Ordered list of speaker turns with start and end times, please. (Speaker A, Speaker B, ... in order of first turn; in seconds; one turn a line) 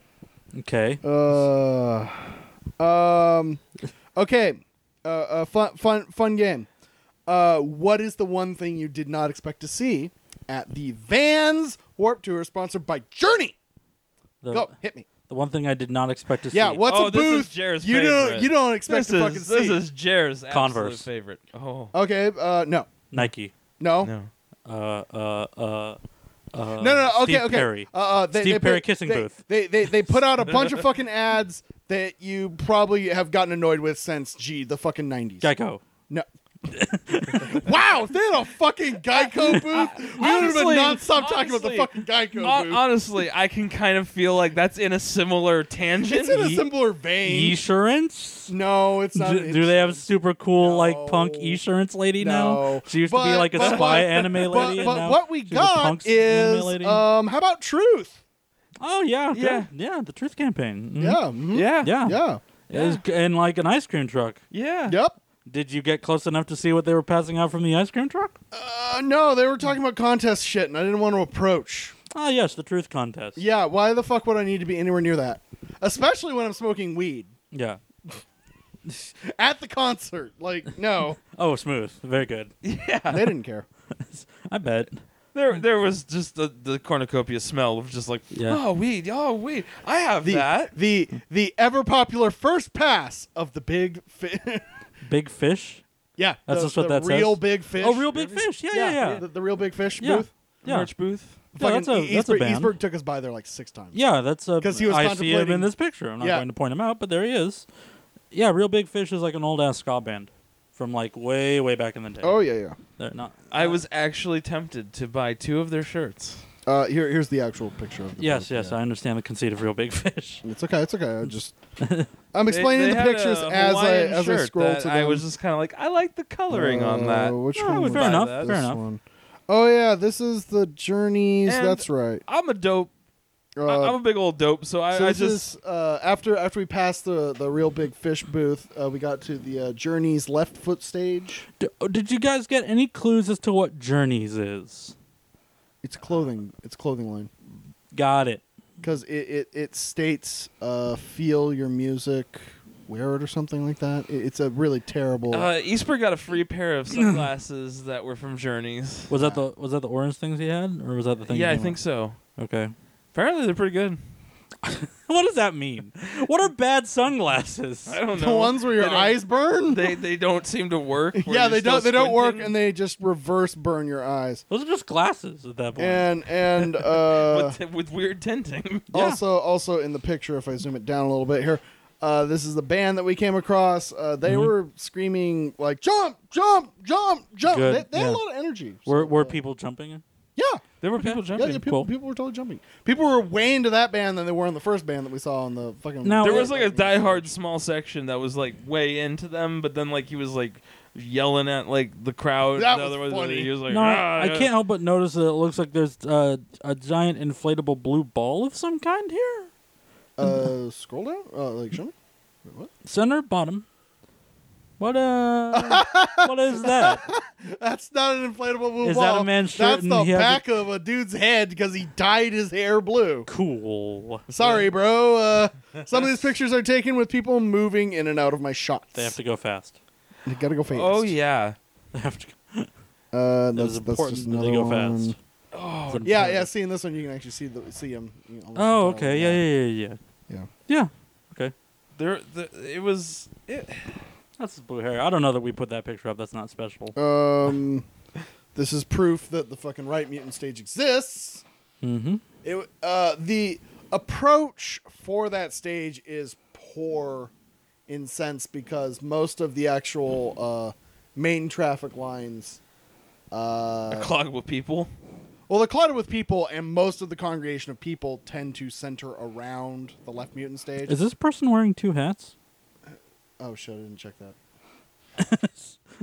Speaker A: 0.5-1.0
Speaker B: 1.0-3.6
Speaker B: 4.1-6.7
Speaker B: 7.3-13.6
Speaker A: 14.4-14.7
Speaker B: 14.5-15.1
Speaker A: 15.2-16.8
Speaker B: 16.5-19.8
Speaker C: 16.8-21.9
Speaker A: 20.5-21.1
Speaker B: 21.9-23.0
Speaker A: 23.1-23.5
Speaker B: 23.8-24.1
Speaker C: 24.0-24.3
Speaker A: 24.7-26.0
Speaker A: 26.5-29.4
Speaker B: 26.8-35.5
Speaker A: 35.4-35.8
Speaker A: 36.7-37.7
Speaker B: 37.3-42.8
Speaker C: 39.5-46.5
Speaker B: 46.0-47.6
Speaker A: 46.3-46.6
Speaker A: 47.2-48.5
Speaker B: 48.5-50.1
Speaker A: 49.1-57.0
Speaker B: 50.6-51.6
Speaker B: 52.2-58.2
Speaker C: 53.6-54.9
Speaker A: 58.8-61.2
Speaker C: 59.3-59.7
Speaker B: 61.0-62.4
Speaker C: 61.5-61.9
Speaker A: 61.8-64.4
Speaker C: 64.5-65.0
Speaker B: 64.9-65.2
Speaker A: 65.5-68.4
Speaker B: 68.5-71.9
Speaker A: 72.1-73.4
Speaker B: 73.4-77.3
Speaker A: 77.5-77.8
Speaker B: 79.2-81.2
Speaker A: 81.3-82.5
Speaker C: 82.6-83.3
Speaker B: 83.1-83.7
Speaker A: 83.9-85.0
Speaker C: 85.3-90.7
Speaker A: 88.3-88.6
Speaker B: 90.2-94.7
Speaker A: 95.0-95.8
Speaker B: 96.2-100.3
Speaker A: 96.5-99.2
Speaker A: 100.0-100.9
Speaker C: 100.6-101.4
Speaker B: 101.5-104.0
Speaker A: 101.5-102.7
Speaker A: 103.9-107.7
Speaker B: 104.6-106.4
Speaker A: 108.3-112.4
Speaker B: 112.2-112.8
Speaker A: 113.0-113.8
Speaker C: 113.5-116.4
Speaker B: 116.7-118.8
Speaker A: 118.2-120.4
Speaker B: 120.4-121.5
Speaker A: 121.8-122.1
Speaker B: 122.3-125.2
Speaker C: 122.5-128.6
Speaker B: 126.5-132.2
Speaker A: 127.5-128.8
Speaker C: 131.4-132.9
Speaker B: 133.6-134.0
Speaker C: 133.7-135.4
Speaker B: 134.9-141.4
Speaker A: 141.6-144.9
Speaker B: 145.8-147.3
Speaker A: 147.9-148.4
Speaker B: 148.8-155.5
Speaker C: 155.3-159.1
Speaker A: 159.1-161.8
Speaker B: 159.1-159.4
Speaker C: 161.3-162.2
Speaker A: 162.4-162.7
Speaker C: 163.1-164.0
Speaker A: 164.6-168.0
Speaker C: 167.9-172.5
Speaker B: 168.1-170.0
Speaker B: 171.1-174.4
Speaker A: 174.5-176.7
Speaker B: 175.8-177.6
Speaker C: 177.1-178.9
Speaker B: 178.9-189.4
Speaker A: 178.9-179.2
Speaker A: 184.2-184.5
Speaker A: 187.4-188.2
Speaker A: 188.8-190.0
Speaker B: 190.3-190.6
Speaker C: 190.8-191.6
Speaker A: 191.0-191.9
Speaker B: 191.3-197.3
Speaker A: 196.0-196.5
Speaker C: 196.2-204.5
Speaker B: 202.5-203.5
Speaker A: 203.7-209.5
Speaker B: 210.2-211.9
Speaker B: 212.4-212.7
Speaker A: 212.8-213.6
Speaker A: 214.8-217.0
Speaker B: 215.5-223.3
Speaker A: 218.8-220.4
Speaker A: 223.3-224.2
Speaker B: 224.3-229.1
Speaker C: 224.3-224.7
Speaker A: 228.9-229.8
Speaker B: 230.2-231.1
Speaker C: 230.7-231.6
Speaker A: 231.9-232.7
Speaker B: 233.1-235.1
Speaker A: 233.5-235.2
Speaker C: 235.5-236.3
Speaker A: 235.9-236.5
Speaker B: 236.0-239.4
Speaker A: 238.6-240.0
Speaker A: 240.7-241.5
Speaker C: 242.0-244.0
Speaker A: 244.4-247.0
Speaker B: 246.9-247.9
Speaker B: 248.5-251.4
Speaker A: 251.8-252.2
Speaker B: 252.4-257.3
Speaker B: 257.9-262.6
Speaker B: 263.3-264.1
Speaker C: 263.9-264.9
Speaker B: 265.5-270.9
Speaker A: 270.9-272.3
Speaker B: 272.9-274.4
Speaker A: 275.2-275.8